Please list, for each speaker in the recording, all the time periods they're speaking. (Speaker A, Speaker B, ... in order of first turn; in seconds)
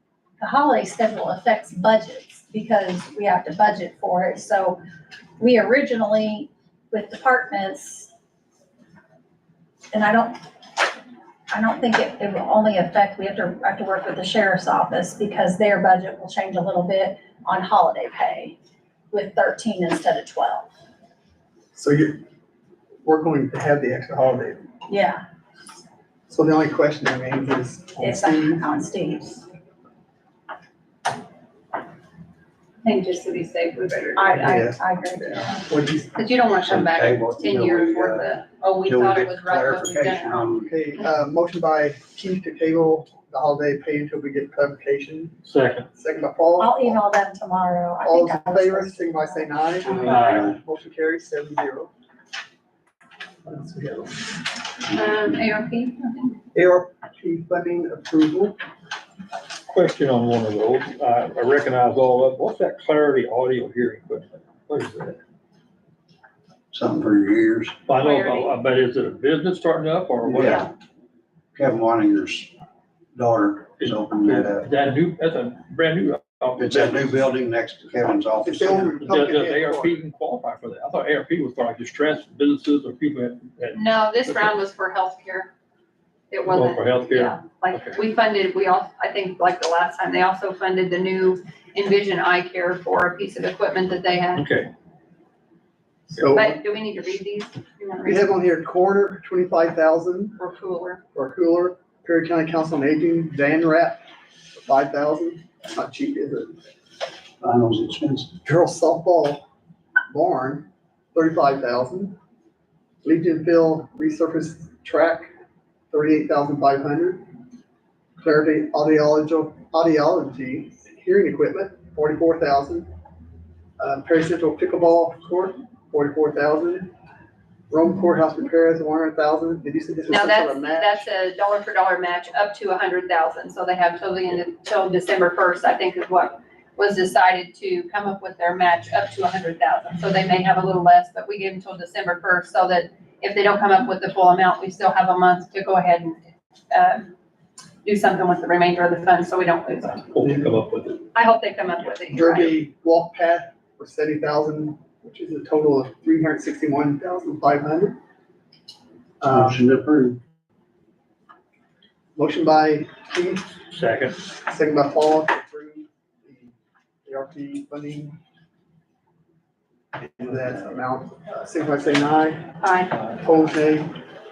Speaker A: 0.4-4.8, 5.4-8.1, 9.9-10.4, 11.5-18.6, 19.1-20.7, 24.9-25.2, 28.0-29.4, 34.2-35.6, 46.6-49.5
Speaker B: 21.7-22.2, 23.0-24.7, 26.3-28.7, 34.3-36.1, 40.5-45.4, 45.9-47.0, 48.0-51.9, 53.4-54.3, 56.5-58.6, 78.4-80.0, 96.1-96.6, 98.0-100.4, 101.1-104.0, 104.5-106.6, 108.4-109.5, 110.1-112.2, 113.0-115.3, 115.9-117.3, 118.2-122.9, 123.8-126.9, 127.7-131.0, 150.2-150.5, 152.1-158.0, 159.2-159.7, 162.1-163.5, 164.4-168.2, 170.0-172.5, 173.2-174.0
Speaker C: 32.8-34.3, 36.1-40.5, 54.9-56.4, 67.9-68.5, 83.7-85.5, 86.3-94.4, 96.3-98.2, 100.4-101.0, 130.1-146.2, 146.7-147.1, 147.8-150.1, 151.1-152.5, 172.6-172.9
Speaker D: 36.7-38.3, 38.8-40.8, 49.8-50.5, 66.7-67.8, 70.2-70.7, 71.5-72.5, 73.1-74.7, 76.6-78.9, 107.4-108.3, 159.3-160.2
Speaker E: 45.4-45.9, 50.0-50.5, 59.7-65.2, 67.9-70.7, 73.8-77.2, 79.0-83.8, 86.5-88.0, 94.3-94.7, 150.1-151.0, 163.7-164.2